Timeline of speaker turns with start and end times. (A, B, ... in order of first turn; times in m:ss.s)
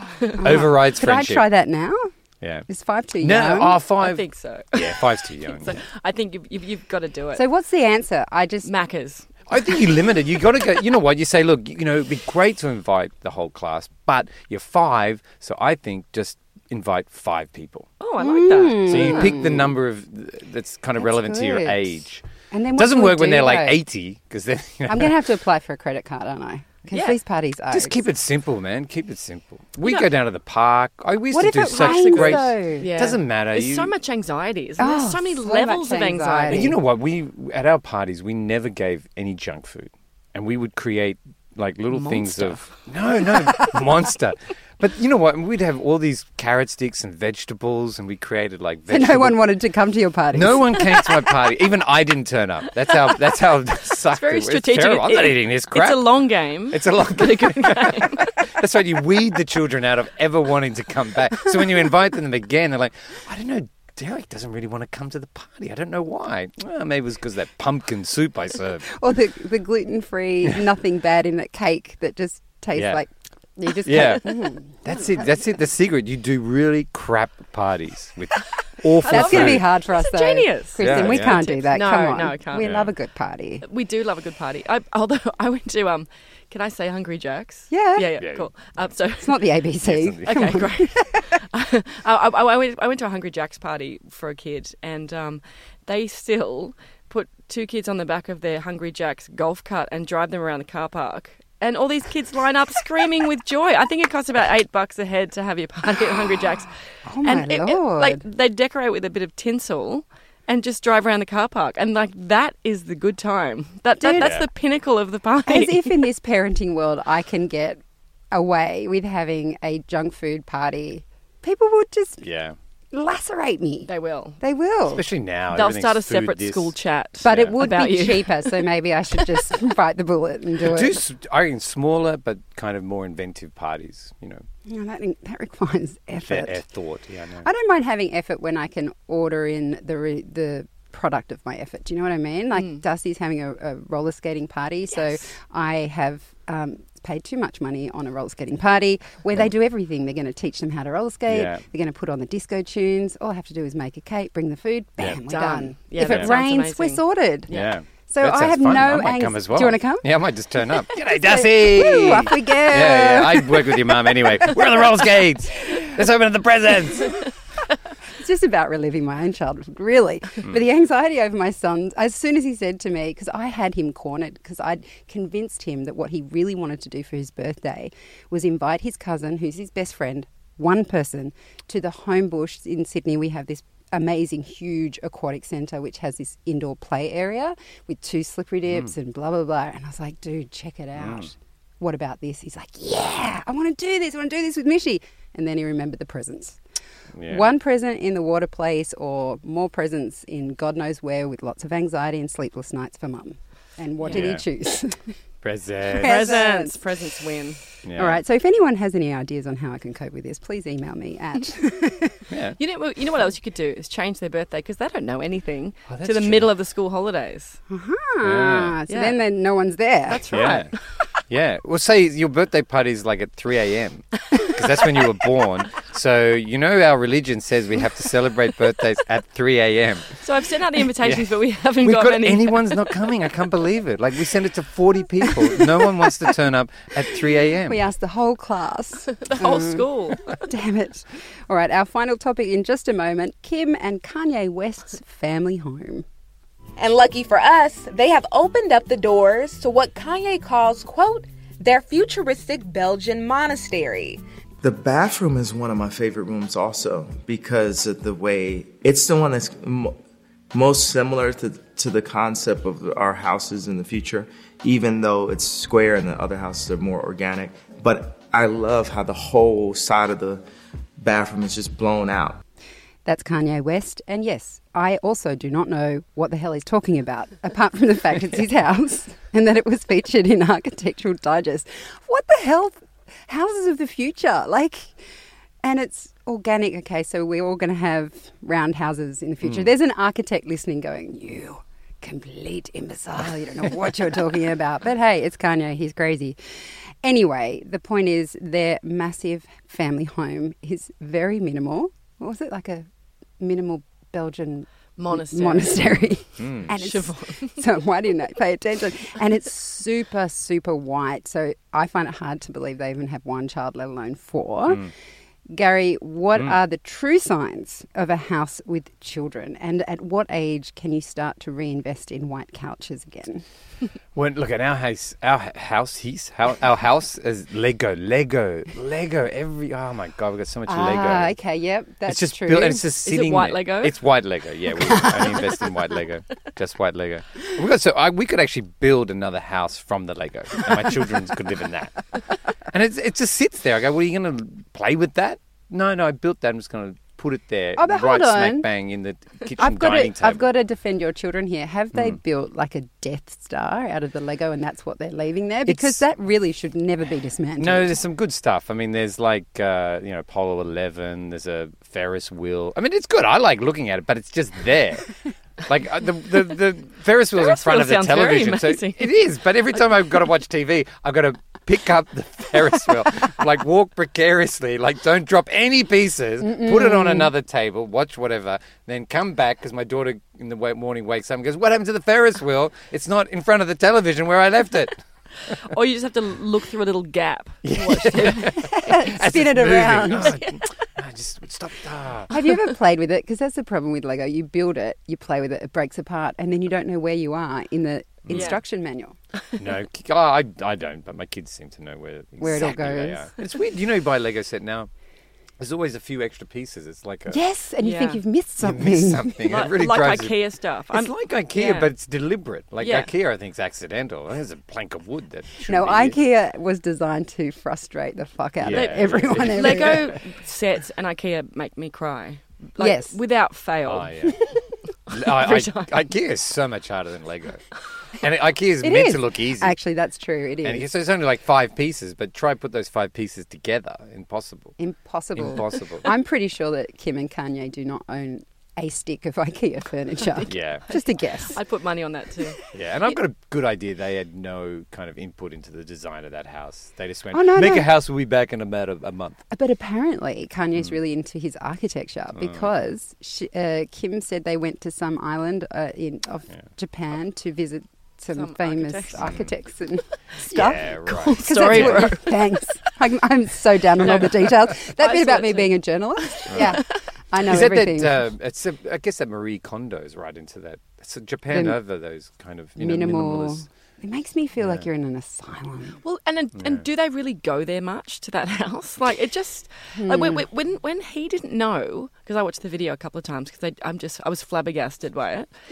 0:00.2-0:02.1 A
0:00.4-0:01.5 B
0:02.4-0:02.7 B
0:02.7-0:03.8 A
0:03.2-0:05.8 B
0:04.0-0:07.4 C
0:07.3-0:08.7 A
0:08.6-0:09.9 C
0:09.5-0:17.9 B
0:18.0-0:19.4 C
0:18.2-0:19.7 A
0:18.9-0:25.2 B
0:21.0-0:21.9 A
0:22.5-0:23.8 A
0:24.9-0:28.0 A
0:26.9-0:27.2 C
0:27.7-0:33.9 B
0:31.3-0:32.9 A
0:31.7-0:36.7 C
0:34.8-0:36.8 A
0:36.5-0:49.5 B
0:41.9-0:42.8 C
0:48.9-0:50.8 A
0:50.3-0:56.1 B
0:53.9-0:58.4 C
0:56.7-1:08.8 B
1:08.9-1:15.3 A
1:12.8-1:13.0 B
1:13.8-1:19.7 B
1:19.0-1:22.7 C
1:19.1-1:23.6 A
1:20.8-1:21.5 B
1:22.6-1:22.9 B
1:23.6-1:29.5 C
1:27.7-1:28.1 A
1:28.2-1:28.5 B
1:29.2-1:31.3 A
1:29.8-1:30.3 B
1:30.2-1:46.7 C
1:47.1-1:48.2 A
1:47.2-1:56.1 C
1:54.0-1:54.4 A
1:54.2-1:54.5 B
1:55.5-2:02.2 A
2:02.2-2:02.6 B
2:02.9-2:05.0 A
2:03.9-2:04.4 C
2:04.9-2:06.7 B
2:05.5-2:08.6 C
2:07.2-2:11.0 A
2:07.2-2:07.6 B
2:10.6-2:14.5 B
2:14.7-2:16.6 A
2:16.3-2:17.5 B
2:17.4-2:37.5 A
2:31.3-2:31.6 B
2:35.3-2:37.8 C
2:36.1-2:36.3 B
2:37.5-2:47.2 B
2:38.1-2:40.1 A
2:41.2-2:44.1 A
2:48.2-3:16.6 A
3:11.0-3:11.3 B
3:17.2-3:17.5 B
3:17.3-3:25.0 A
3:24.0-3:24.3 C
3:24.1-3:24.4 B
3:25.4-3:26.4 B
3:26.0-3:26.8 A
3:26.0-3:27.6 C
3:27.8-3:28.2 B
3:28.0-3:32.2 A
3:32.3-3:32.6 B
3:32.6-3:37.6 C
3:35.9-3:36.5 B
3:37.7-3:40.2 A
3:38.2-3:38.8 B
3:38.9-3:39.2 C
3:40.1-3:41.1 C
3:40.3-3:40.7 B
3:41.3-3:50.2 B
3:50.2-3:53.0 C
3:51.0-3:57.8 B
3:57.7-4:06.0 A
3:59.2-4:00.4 C
4:06.8-4:14.2 D
4:14.6-4:20.0 E
4:20.5-4:30.4 E
4:31.0-4:32.4 E
4:33.1-4:44.9 A
4:45.6-4:56.4 A
4:49.4-4:49.7 B
4:57.0-5:02.9 A
5:03.4-5:14.9 A
5:05.0-5:05.9 C
5:06.4-5:06.7 B
5:06.7-5:07.6 C
5:15.5-5:23.4 A
5:24.2-5:31.4 B
5:30.7-5:32.9 A
5:32.1-5:42.1 B
5:33.0-5:34.0 C
5:42.7-5:50.5 B
5:47.8-5:48.7 A
5:49.6-5:57.9 A
5:55.7-5:56.0 B
5:57.6-6:05.1 B
6:05.6-6:25.0 B
6:07.4-6:09.2 C
6:16.4-6:17.3 A
6:25.6-6:28.6 C
6:27.6-6:32.3 B
6:28.4-6:30.4 A
6:32.3-6:39.2 A
6:38.3-6:38.6 B
6:38.3-6:38.6 C
6:39.6-6:44.9 B
6:42.4-6:43.3 A
6:45.6-6:47.4 B
6:47.3-6:49.5 A
6:47.8-6:48.2 C
6:48.6-6:50.4 B
6:49.5-6:51.9 C
6:50.9-6:56.2 B
6:52.8-6:53.1 C
6:55.7-7:00.1 A
6:58.6-7:00.2 B
6:58.7-7:04.2 C
7:02.8-7:03.2 A
7:03.9-7:04.5 B
7:05.1-7:06.0 C
7:05.1-7:07.7 B
7:08.2-7:09.8 B
7:08.8-7:10.9 A
7:10.6-7:14.8 B
7:14.8-7:21.6 A
7:15.4-7:16.1 B
7:20.5-7:20.9 B
7:20.9-7:22.6 C
7:22.7-7:29.4 B
7:27.3-7:27.9 A
7:29.5-7:48.2 A
7:32.4-7:32.7 B
7:38.3-7:39.4 C
7:39.2-7:39.5 B
7:40.5-7:42.2 B
7:40.5-7:42.6 C
7:44.0-7:47.0 C
7:46.5-7:46.8 B
7:47.4-7:53.6 B
7:51.5-7:51.8 A
7:52.8-7:56.0 A
7:54.6-7:54.8 B
7:56.0-8:05.5 C
7:56.6-7:56.8 B
8:00.0-8:00.4 A